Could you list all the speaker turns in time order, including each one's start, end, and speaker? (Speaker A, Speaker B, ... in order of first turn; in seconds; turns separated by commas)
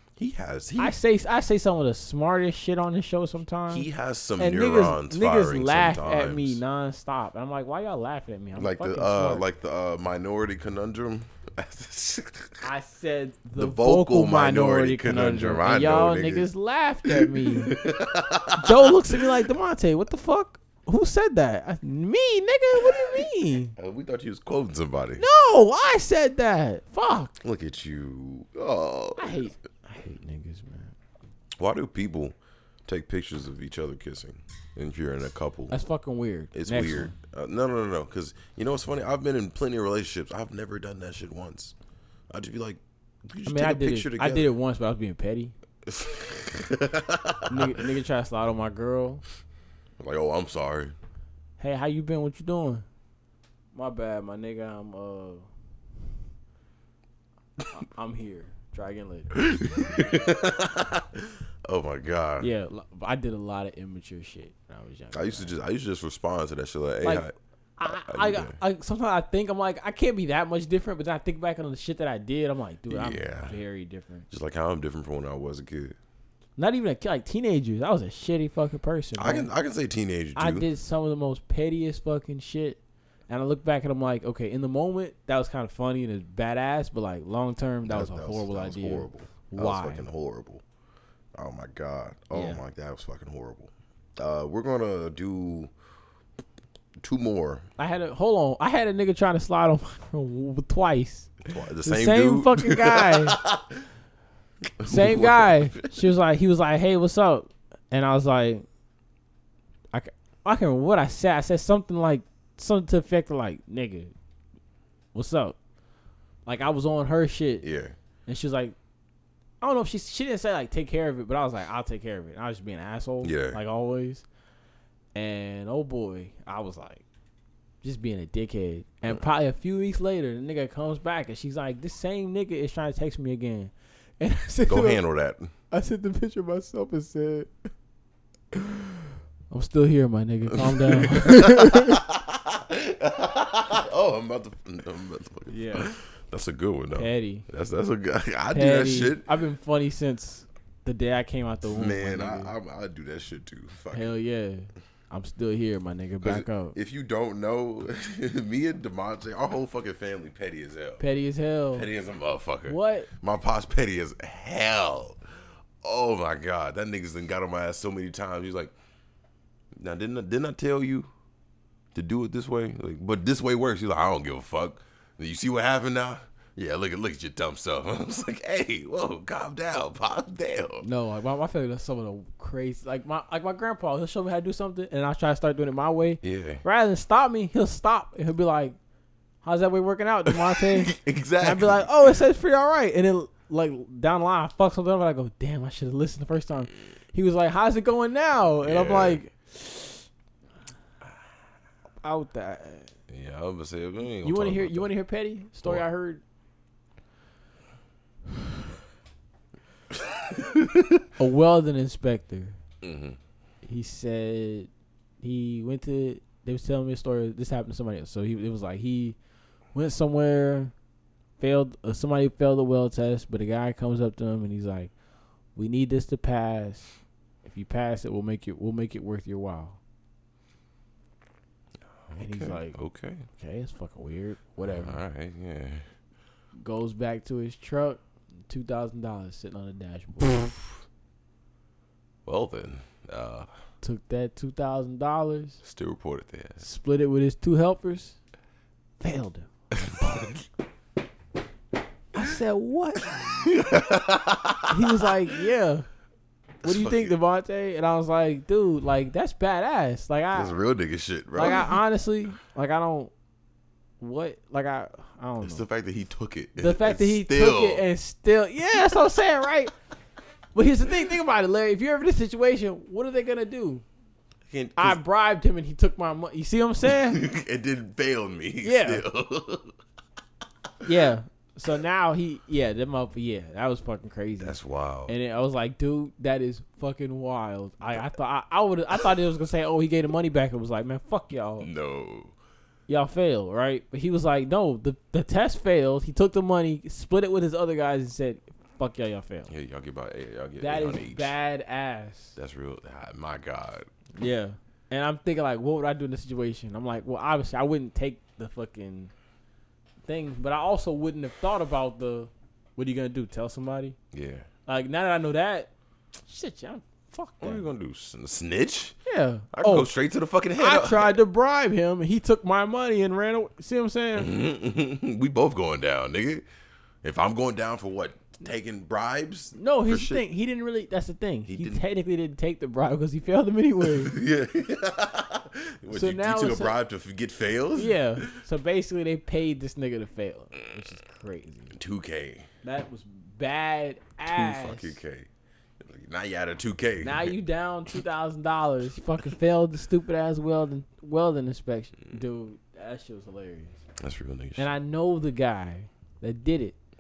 Speaker A: 0.2-1.0, Speaker B: 0.8-3.9, Speaker A: 3.7-6.6, Speaker B: 4.4-9.4, Speaker A: 8.6-12.7, Speaker B: 12.6-17.8, Speaker A: 13.6-16.5, Speaker A: 17.1-19.2, Speaker B: 18.6-23.7, Speaker A: 22.9-23.2, Speaker A: 23.8-25.2, Speaker B: 25.2-27.3, Speaker A: 27.4-29.4, Speaker B: 29.2-30.9, Speaker A: 31.6-35.7, Speaker B: 35.7-37.1, Speaker A: 36.5-41.8, Speaker A: 42.3-44.5, Speaker B: 43.5-45.5, Speaker A: 45.9-47.7, Speaker B: 47.5-49.2, Speaker A: 50.0-51.0, Speaker B: 51.6-52.9, Speaker B: 53.7-55.5, Speaker B: 57.7-59.4, Speaker A: 59.4-62.5, Speaker B: 62.4-65.5, Speaker A: 65.1-67.3, Speaker B: 67.8-74.3, Speaker A: 67.9-68.6, Speaker A: 72.9-73.6, Speaker A: 74.3-76.0, Speaker B: 76.6-79.5, Speaker A: 79.2-80.7, Speaker B: 80.3-90.1, Speaker A: 87.8-90.6, Speaker A: 91.3-95.7, Speaker B: 92.3-92.6, Speaker A: 97.0-97.7, Speaker B: 97.8-101.3, Speaker A: 101.5-103.8, Speaker B: 101.8-103.4, Speaker A: 104.8-106.1, Speaker B: 104.9-108.7, Speaker B: 109.9-114.1, Speaker B: 115.1-115.6, Speaker B: 116.5-117.7, Speaker A: 117.6-118.0, Speaker B: 118.3-118.8, Speaker B: 119.6-124.3, Speaker A: 123.2-123.6, Speaker B: 125.2-127.0, Speaker B: 127.8-135.0, Speaker A: 134.7-135.5, Speaker B: 135.7-137.5, Speaker B: 139.5-142.0, Speaker A: 140.5-149.3, Speaker B: 145.5-145.9, Speaker B: 146.9-147.5, Speaker B: 148.5-152.5, Speaker A: 151.7-154.1, Speaker B: 153.9-156.8, Speaker A: 156.2-161.0, Speaker B: 161.0-161.9, Speaker A: 161.7-165.2, Speaker B: 162.7-163.1, Speaker A: 165.8-168.7, Speaker A: 169.8-171.1, Speaker A: 171.9-180.8, Speaker B: 180.8-188.8, Speaker A: 186.2-186.6, Speaker B: 189.4-200.1, Speaker A: 190.3-192.1, Speaker A: 198.6-199.2, Speaker B: 202.0-202.9, Speaker A: 203.1-204.9, Speaker B: 204.2-206.2, Speaker A: 210.3-211.0, Speaker B: 211.2-212.6, Speaker A: 212.8-213.2, Speaker B: 213.6-214.7, Speaker B: 215.2-219.2, Speaker B: 219.7-220.7, Speaker B: 221.4-224.9, Speaker B: 225.6-229.8, Speaker A: 232.1-233.3, Speaker B: 232.2-235.0, Speaker A: 234.7-235.9, Speaker B: 236.6-240.4, Speaker A: 242.2-243.5, Speaker B: 243.8-245.6, Speaker A: 245.6-246.7, Speaker B: 246.6-248.2, Speaker B: 249.0-249.5, Speaker A: 249.8-250.4, Speaker B: 250.0-250.3, Speaker B: 252.1-253.3, Speaker A: 253.2-255.1, Speaker B: 254.7-255.9, Speaker A: 256.6-257.1, Speaker B: 256.6-260.6, Speaker A: 260.3-261.8, Speaker B: 261.3-263.1, Speaker B: 264.0-265.7, Speaker A: 265.4-267.9, Speaker B: 266.6-269.7, Speaker B: 270.5-273.9, Speaker A: 274.5-275.0, Speaker B: 274.8-277.2, Speaker A: 276.9-279.8, Speaker B: 278.6-279.1, Speaker B: 280.8-291.7, Speaker A: 284.4-285.1, Speaker A: 291.6-292.3, Speaker B: 292.9-299.5, Speaker A: 299.5-301.4, Speaker B: 300.6-302.4, Speaker A: 302.4-303.9, Speaker B: 304.2-309.1, Speaker B: 310.1-314.0, Speaker A: 314.1-314.5, Speaker B: 314.7-315.7, Speaker B: 316.2-317.6, Speaker A: 317.4-319.0, Speaker B: 319.1-319.9, Speaker A: 319.5-321.2, Speaker B: 320.6-324.3, Speaker A: 324.1-326.5, Speaker A: 327.0-330.2, Speaker B: 329.6-334.2, Speaker A: 331.5-331.8, Speaker A: 333.8-338.2, Speaker B: 335.9-336.8, Speaker B: 337.7-341.8, Speaker A: 341.7-342.5, Speaker B: 342.6-345.0, Speaker A: 344.3-347.3, Speaker B: 347.0-353.8, Speaker A: 354.0-354.7, Speaker B: 354.6-356.8